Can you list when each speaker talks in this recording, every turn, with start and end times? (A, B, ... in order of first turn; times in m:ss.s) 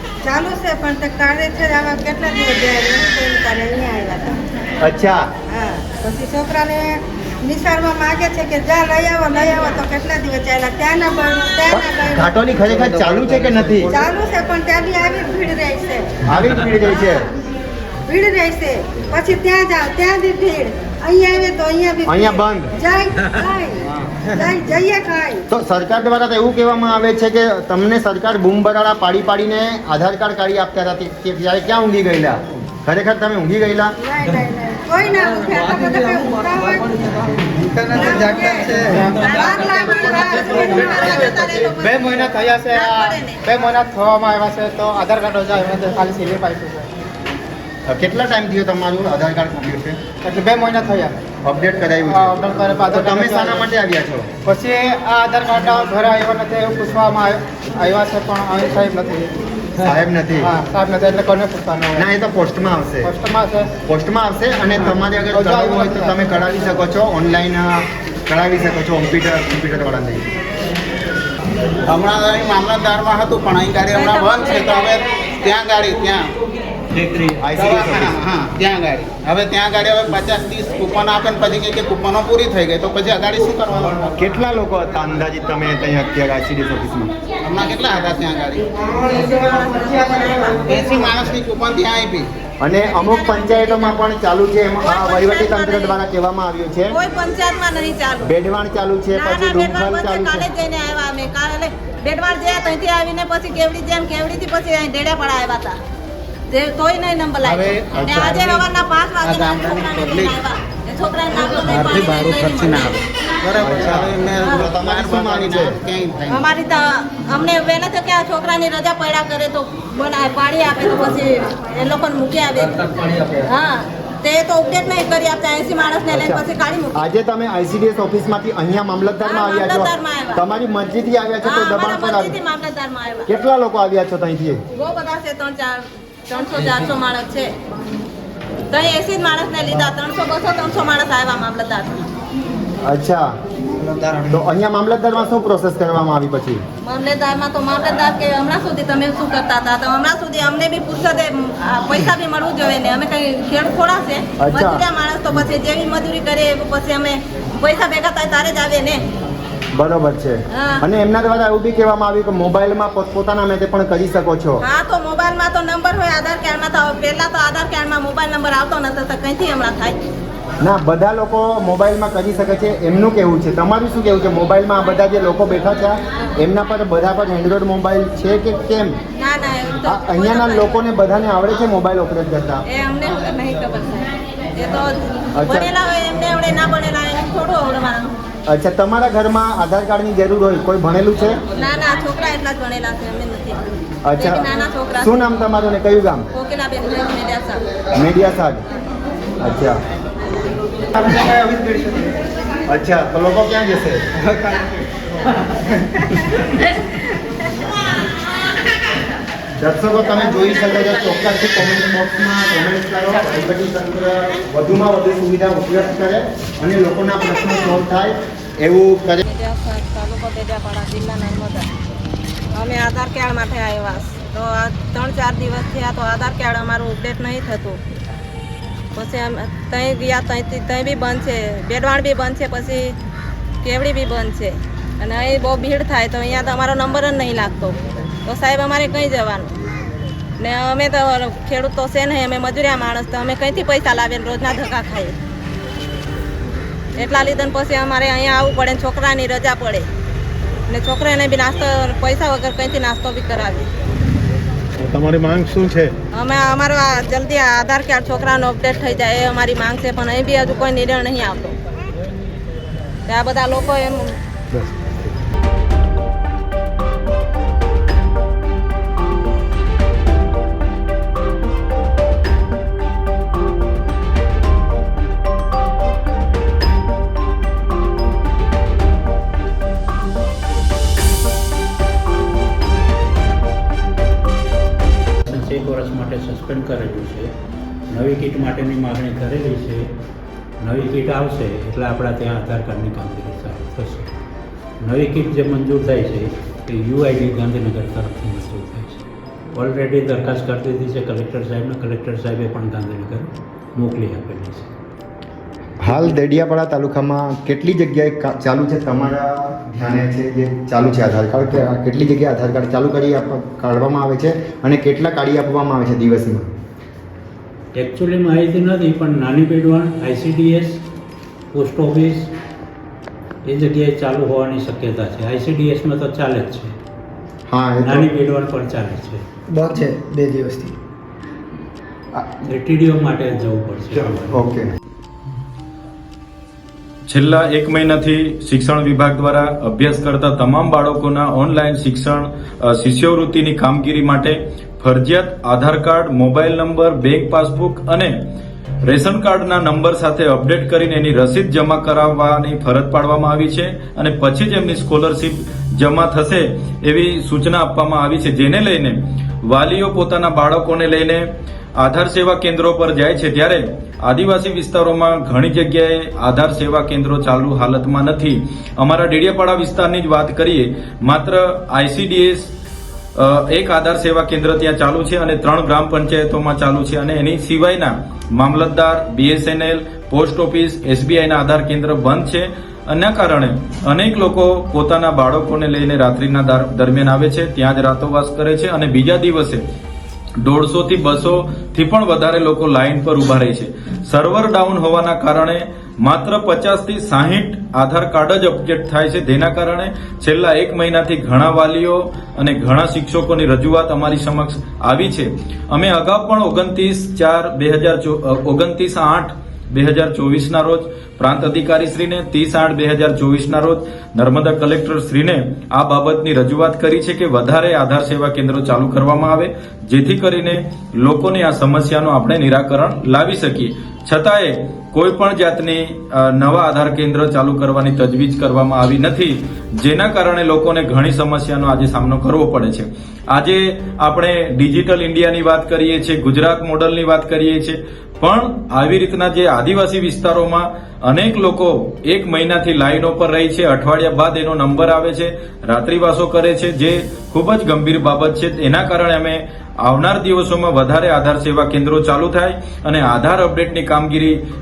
0:00.2-0:04.4 A
0:04.8-0:05.3 B
0:05.5-0:12.2 A
0:11.7-0:13.9 B
0:12.8-0:13.8 C
0:13.8-0:16.2 A
0:16.2-0:17.2 B
0:18.1-0:25.4 A
0:22.0-0:22.7 B
0:23.9-0:24.3 B
0:25.5-0:34.0 B
0:34.0-0:37.2 A
0:37.8-0:41.2 A
0:38.9-0:39.4 D
0:39.2-0:43.4 E
0:40.4-0:46.9 D
0:47.9-0:50.0 B
0:50.2-0:51.1 D
0:51.4-0:52.2 B
0:52.1-0:53.7 D
0:52.9-0:54.3 B
0:54.5-0:59.3 D
0:59.8-1:00.5 B
1:00.4-1:02.0 D
1:02.0-1:03.1 B
1:03.0-1:03.7 D
1:03.8-1:10.3 B
1:04.8-1:06.1 D
1:11.9-1:16.3 C
1:14.1-1:14.8 E
1:16.9-1:24.1 C
1:17.4-1:18.2 B
1:24.2-1:27.1 B
1:27.4-1:28.9 C
1:28.9-1:31.0 E
1:30.6-1:32.3 C
1:32.6-1:37.0 B
1:32.9-1:34.0 E
1:34.8-1:36.0 E
1:36.9-1:38.2 E
1:38.2-1:40.5 B
1:39.1-1:45.8 E
1:46.5-1:53.0 E
1:47.4-1:48.7 C
1:48.0-1:48.3 B
1:49.2-1:50.4 C
1:51.7-1:56.5 C
1:53.6-1:55.8 B
1:56.3-2:07.0 E
2:06.1-2:12.4 B
2:09.3-2:10.4 E
2:11.5-2:13.3 E
2:13.3-2:14.6 B
2:14.8-2:17.5 E
2:18.7-2:22.1 E
2:22.8-2:23.3 B
2:24.2-2:26.6 B
2:26.8-2:39.0 E
2:34.4-2:34.8 B
2:39.7-2:44.6 B
2:40.5-2:40.8 E
2:44.6-2:50.0 E
2:50.6-2:59.0 B
2:59.2-3:00.8 E
2:59.8-3:02.6 B
3:02.7-3:08.2 E
3:05.4-3:05.7 B
3:08.5-3:11.4 B
3:11.6-3:13.6 E
3:14.0-3:14.5 B
3:14.2-3:15.3 E
3:15.0-3:16.3 B
3:16.3-3:17.7 E
3:17.9-3:18.6 B
3:19.4-3:19.8 B
3:21.1-3:21.8 C
3:22.7-3:24.0 B
3:25.9-3:26.3 B
3:29.6-3:39.2 B
3:39.3-3:41.7 E
3:42.5-3:47.8 E
3:49.0-3:53.0 E
3:53.6-3:59.5 E
4:00.4-4:05.2 E
4:07.0-4:09.9 E
4:10.7-4:13.7 E
4:14.8-4:15.9 B
4:16.1-4:21.6 E
4:23.1-4:24.2 E
4:24.5-4:25.0 B
4:45.3-4:47.3 F
4:47.9-4:49.9 F
4:50.6-4:54.1 F
4:54.8-4:59.0 F
4:59.5-5:04.7 F
5:05.8-5:16.5 B
5:05.9-5:06.1 F
5:17.7-5:20.8 F
5:21.5-5:22.3 F
5:23.4-5:26.8 F
5:27.5-5:28.1 B
5:27.8-5:29.2 F
5:29.5-5:30.7 B
5:32.5-5:34.5 F
5:33.9-5:34.7 B
5:37.1-5:48.1 G
5:48.8-6:01.3 G
6:01.8-6:12.5 G
6:13.2-6:29.6 G
6:30.4-7:34.4 G